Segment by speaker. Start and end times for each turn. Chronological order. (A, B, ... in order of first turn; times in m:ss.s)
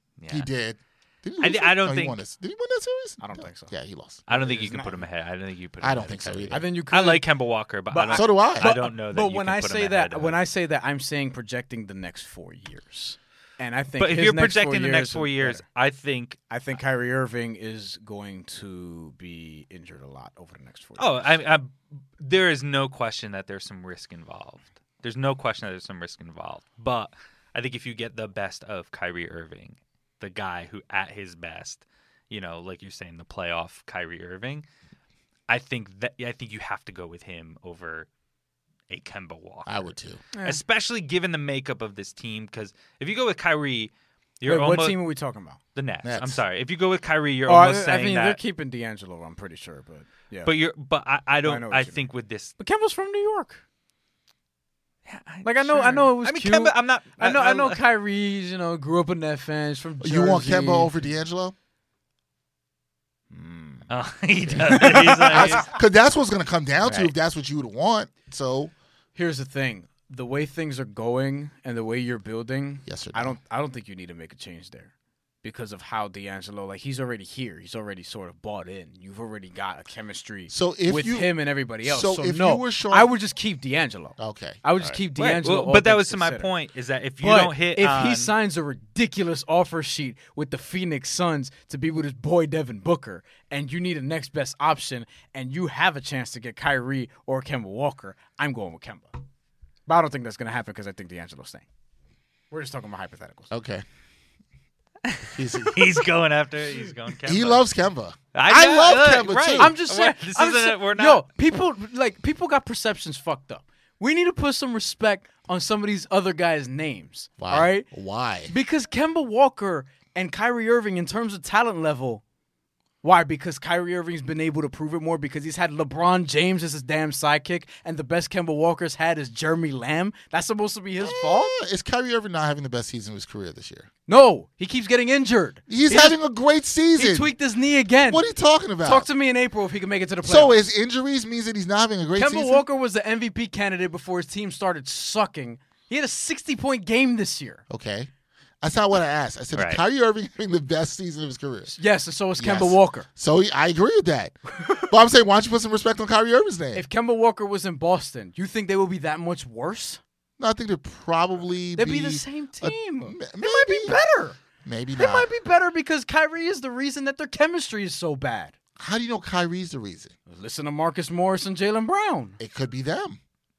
0:00.2-0:00.5 A
0:00.3-0:04.2 B
0:01.4-0:02.2 A
0:03.2-0:03.7 C
0:04.3-0:10.4 A
0:04.3-0:05.1 C
0:05.8-0:06.6 B
0:06.5-0:07.3 C
0:07.9-0:15.6 C
0:08.1-0:08.7 B
0:14.0-0:16.4 A
0:16.5-0:21.4 C
0:21.0-0:34.6 A
0:35.5-0:38.1 A
0:38.9-0:39.9 A
0:39.6-0:40.2 B
0:40.3-0:40.6 C
0:40.4-0:45.0 A
0:44.4-0:45.6 C
0:45.7-0:48.4 A
0:46.0-0:46.4 B
0:47.4-0:50.5 C
0:50.4-0:52.5 A
0:51.4-0:52.0 C
0:52.6-0:53.6 C
0:55.0-0:57.8 A
0:55.4-1:00.9 C
1:00.0-1:01.5 B
1:03.3-1:03.8 C
1:03.9-1:05.7 A
1:04.6-1:05.6 C
1:05.3-1:08.7 B
1:09.1-1:14.9 C
1:12.8-1:13.4 B
1:15.4-1:26.5 C
1:20.5-1:23.1 B
1:24.2-1:25.0 B
1:25.2-1:28.3 A
1:27.2-1:39.2 C
1:39.9-1:41.6 C
1:42.5-1:43.5 C
1:43.5-1:43.8 B
1:45.0-1:47.6 A
1:45.2-1:46.0 B
1:47.2-1:49.7 B
1:48.3-1:51.2 A
1:49.6-1:57.9 C
1:57.4-1:58.5 B
1:58.5-2:02.2 C
2:03.0-2:11.5 C
2:11.0-2:13.9 B
2:14.1-2:16.2 C
2:15.7-2:17.3 B
2:17.0-2:18.3 C
2:18.1-2:19.1 B
2:18.8-2:20.6 C
2:20.2-2:22.6 B
2:22.2-2:27.6 C
2:27.7-2:28.1 B
2:28.6-2:31.7 B
2:29.5-2:29.8 A
2:31.7-2:33.1 C
2:32.4-2:36.8 B
2:36.7-2:40.0 C
2:40.4-2:43.9 B
2:41.8-2:44.4 C
2:44.6-2:45.3 B
2:44.9-2:48.5 C
2:48.8-2:50.1 B
2:50.3-2:52.4 C
2:52.4-2:53.2 B